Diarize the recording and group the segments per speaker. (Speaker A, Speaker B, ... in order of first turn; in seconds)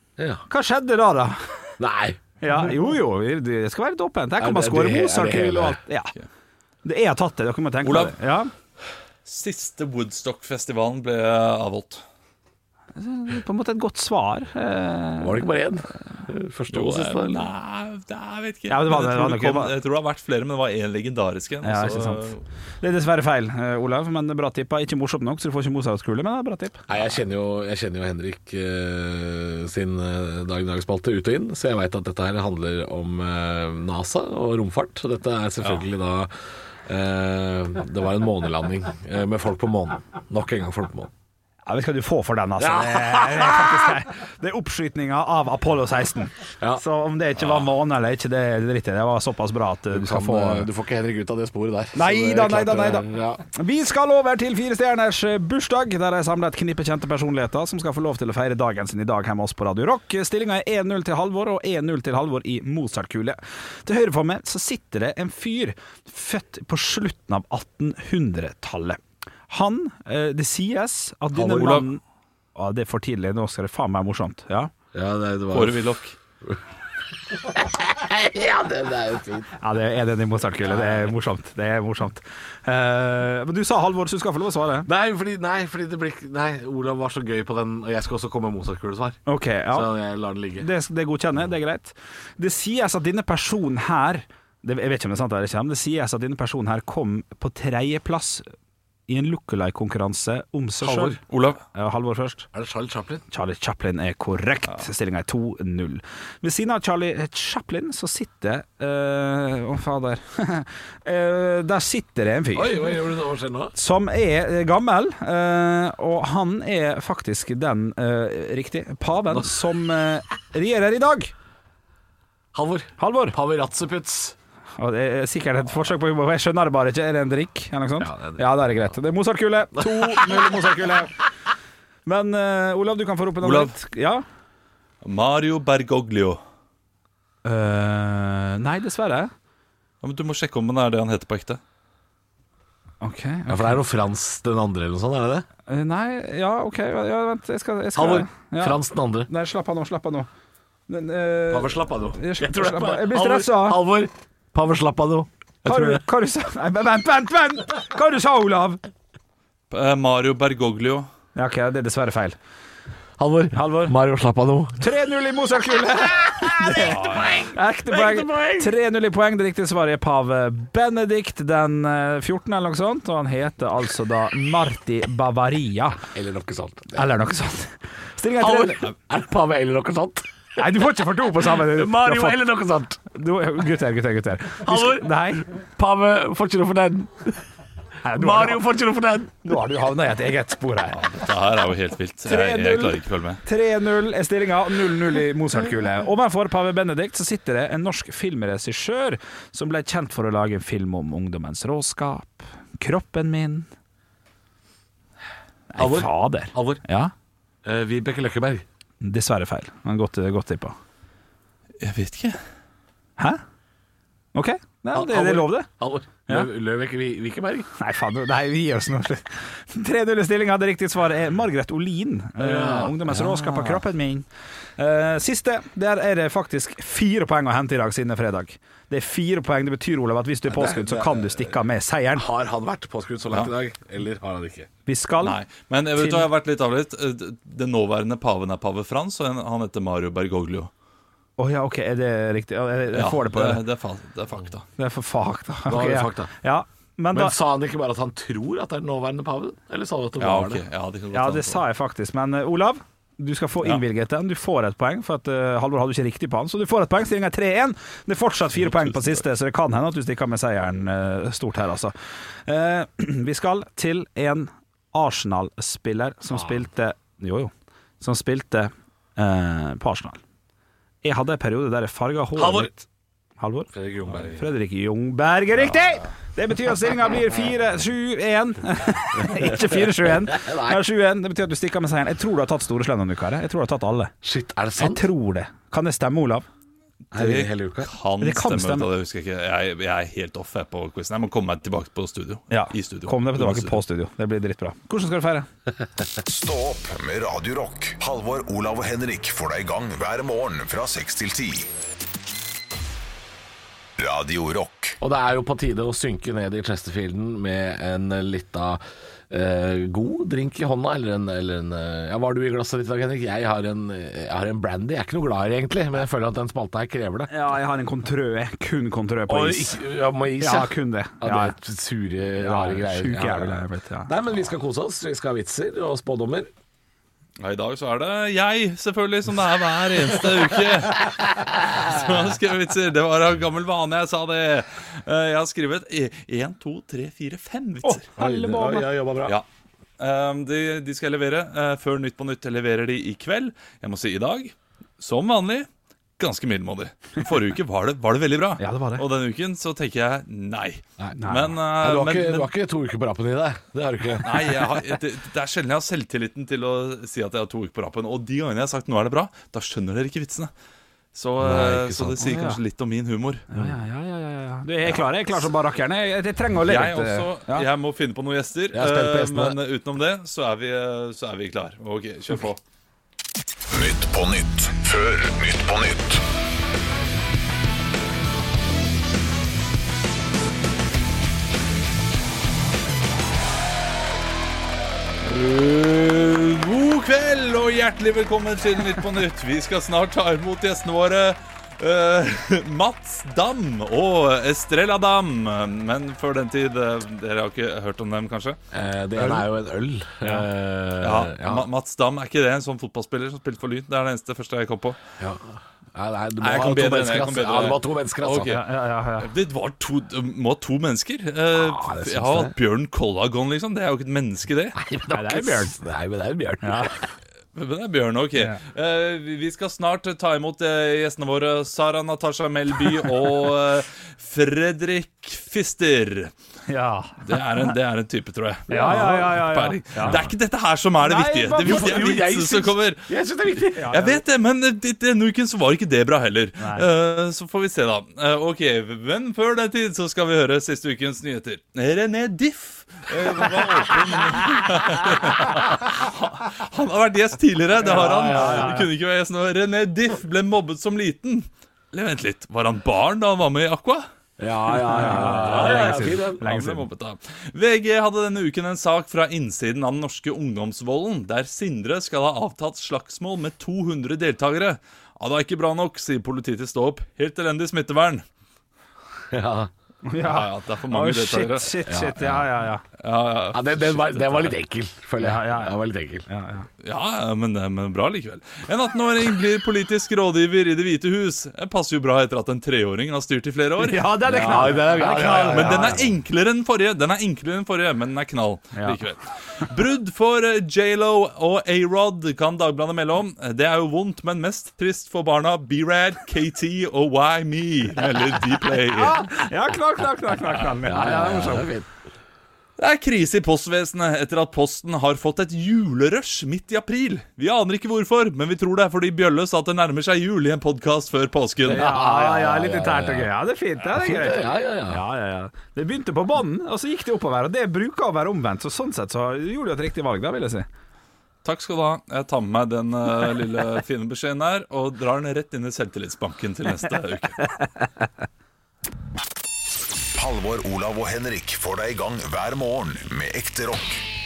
Speaker A: 0.2-0.4, 1.8-2.2, 4.4-5.8, 15.2-17.4, 26.9-36.3, 36.8-41.1, 42.6-44.0, 49.9-53.4, 71.3-71.8, 74.9-75.8, 77.3-79.5, 80.7-81.1, 84.8-89.2, 89.7-90.7, 100.8-101.2, 102.5-103.2, 112.5-113.7, 122.5-124.3, 128.0-128.4, 129.8-130.5, 143.5-145.4, 147.9-149.3, 151.5-156.0, 163.2-164.9, 166.3-168.7, 176.1-177.1, 178.4-180.2, 181.4-183.0, 184.6-187.4, 188.1-189.6, 205.8-206.8, 207.6-208.6, 214.9-217.7, 222.4-223.8, 230.5-231.5, 232.2-234.7, 245.7-246.3, 247.1-250.6, 272.4-272.7, 273.7-274.4, 279.2-280.8, 284.2-285.1, 287.1-287.9, 305.0-317.3, 319.3-326.5, 338.2-339.4, 351.8-354.6, 361.4-362.2, 368.7-369.6, 398.7-401.7, 405.2-408.6, 411.5-412.5, 414.7-417.1, 428.7-429.4, 430.0-430.3, 431.5-434.2, 447.8-448.8, 454.4-456.5, 469.3-469.7, 471.9-472.5, 473.5-476.2, 484.2-486.1, 500.8-501.9, 511.7-513.3, 513.9-515.0
Speaker B: 0.5-1.4, 2.4-6.1, 6.8-8.5, 12.9-15.5, 18.7-19.7, 21.6-22.3, 22.8-26.8, 41.6-50.7, 51.9-72.0, 72.5-74.7, 79.6-84.9, 89.2-89.9, 90.6-98.5, 99.1-101.2, 101.7-102.5, 103.3-112.9, 113.7-121.3, 123.0-123.4, 124.8-131.2, 132.1-134.2, 137.4-139.3, 143.0-143.8, 145.7-150.3, 150.9-153.8, 155.6-158.8, 161.3-162.3, 163.5-163.9, 164.8-176.0, 176.9-178.8, 180.6-182.4, 183.1-185.5, 188.0-188.6, 189.4-191.0, 192.2-203.7, 205.7-207.1, 209.0-210.8, 214.3-215.7, 217.8-224.2, 224.8-232.2, 234.8-235.4, 236.0-236.3, 241.4-243.6, 244.8-247.3, 251.1-261.9, 262.4-270.2, 271.0-272.8, 273.4-273.7, 274.3-284.1, 284.8-286.4, 288.2-288.9, 292.5-295.5, 317.3-319.8, 320.4-321.5, 322.4-324.1, 337.8-338.9, 348.6-349.0, 351.1-351.5, 362.2-362.6, 363.5-367.7, 408.4-409.3, 415.1-415.8, 416.6-416.9, 426.7-427.4, 428.7-430.2, 431.0-432.1, 433.8-434.1, 436.6-436.9, 447.9-448.9, 454.9-456.9, 470.0-472.8, 475.2-475.7, 476.3-476.7, 483.8-486.0, 498.9-501.7, 511.7-520.6
Speaker C: 7.8-8.1, 9.2-12.0, 16.7-22.4, 71.5-71.8, 75.5-76.2, 101.3-101.6, 133.4-133.7, 135.0-136.4, 140.0-141.6, 159.7-161.1, 166.7-167.4, 190.9-193.4, 211.8-212.4, 235.2-240.7, 242.9-244.6, 250.2-251.6, 258.6-259.2, 287.1-293.8, 327.4-338.1, 340.0-345.7, 346.2-352.5, 354.2-360.5, 361.1-363.4, 366.6-372.6, 385.2-398.6, 401.0-405.0, 406.4-408.6, 409.2-414.8, 417.5-426.3, 427.2-433.0, 433.9-454.1, 454.9-468.2, 470.2-471.8, 473.0-474.5, 476.8-499.4, 502.8-511.9, 521.4-527.5
Speaker D: 296.2-301.7, 304.0-305.0, 373.7-376.2, 530.1-534.0